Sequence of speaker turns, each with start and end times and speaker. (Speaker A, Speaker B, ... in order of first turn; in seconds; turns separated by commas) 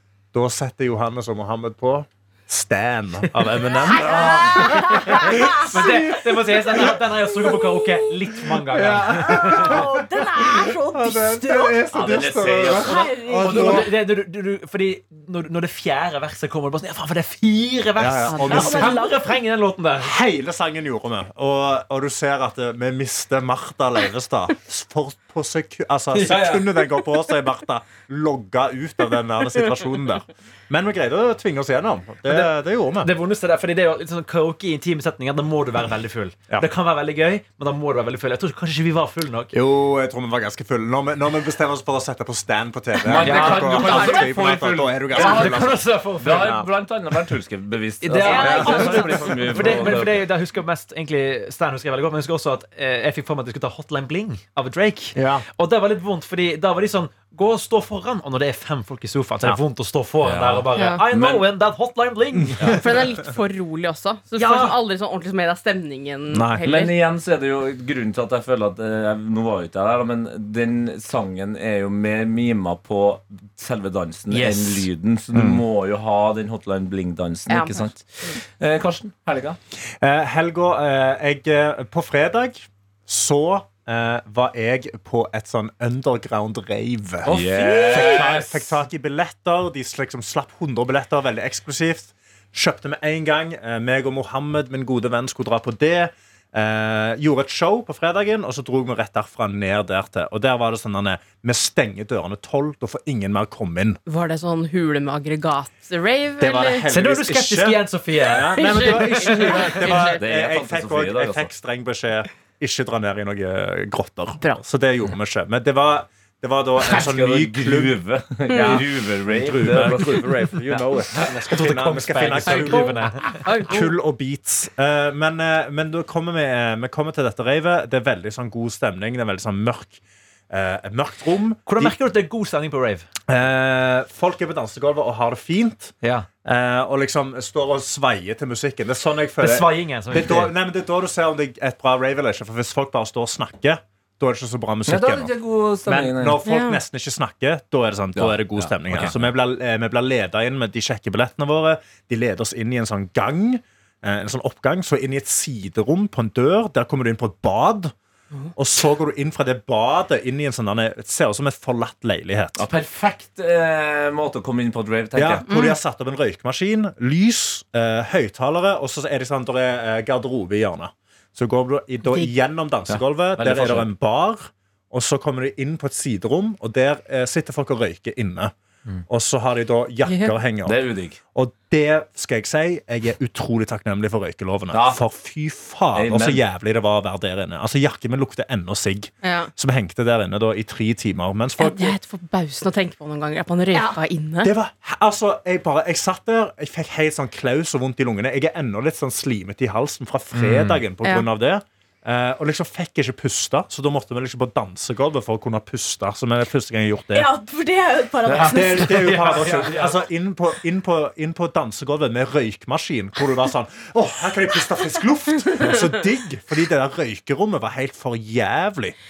Speaker A: 0.3-7.9, Speaker B: 3.8-6.2, Speaker C: 4.1-4.8, Speaker D: 4.7-9.7, Speaker A: 8.7-13.9, Speaker B: 9.0-11.9, Speaker C: 11.9-13.2, Speaker B: 12.5-13.9, Speaker D: 13.4-20.1, Speaker A: 18.0-19.0, Speaker E: 18.3-18.6, Speaker B: 18.5-19.3, Speaker A: 20.0-33.1, Speaker D: 26.1-26.7, Speaker D: 32.2-32.5, Speaker D: 33.0-39.5, Speaker A: 39.5-46.6, Speaker C: 43.0-50.3, Speaker D: 43.2-44.2, Speaker E: 43.8-44.2, Speaker D: 45.1-46.7, Speaker D: 48.0-62.9, Speaker B: 48.2-49.7, Speaker A: 48.4-50.0, Speaker A: 55.1-55.5, Speaker C: 60.2-61.5, Speaker E: 60.8-61.0, Speaker A: 62.4-62.8, Speaker E: 62.7-67.0, Speaker D: 64.4-64.8, Speaker A: 66.3-66.6, Speaker C: 66.6-79.6, Speaker D: 74.3-74.9, Speaker A: 75.3-75.6, Speaker E: 77.5-78.3, Speaker A: 80.0-104.0, Speaker C: 87.2-88.8, Speaker E: 104.1-106.8, Speaker A: 106.4-118.0, Speaker D: 106.9-109.9, Speaker E: 108.5-110.2, Speaker C: 110.0-111.5, Speaker C: 116.8-121.3, Speaker E: 118.5-118.8, Speaker A: 118.5-132.0, Speaker D: 120.7-123.4, Speaker E: 122.7-123.9, Speaker D: 131.7-133.1, Speaker A: 133.3-135.9, Speaker D: 136.0-136.3, Speaker A: 136.4-145.3, Speaker D: 139.4-140.5, Speaker C: 144.9-146.4, Speaker A: 145.9-157.9, Speaker E: 146.4-146.8, Speaker C: 148.2-149.3, Speaker A: 158.6-162.6, Speaker C: 162.6-165.4, Speaker A: 165.2-178.5, Speaker E: 165.5-165.8, Speaker E: 172.1-172.3, Speaker C: 172.9-173.9, Speaker A: 179.1-180.8, Speaker E: 180.1-180.3, Speaker C: 180.7-181.2, Speaker A: 181.3-192.0, Speaker C: 184.7-185.0, Speaker C: 185.9-186.4, Speaker E: 189.2-189.5, Speaker E: 191.6-194.5, Speaker A: 194.4-207.3, Speaker D: 200.3-200.8, Speaker B: 207.1-209.1, Speaker C: 208.2-208.8, Speaker A: 208.5-218.9, Speaker D: 208.9-210.0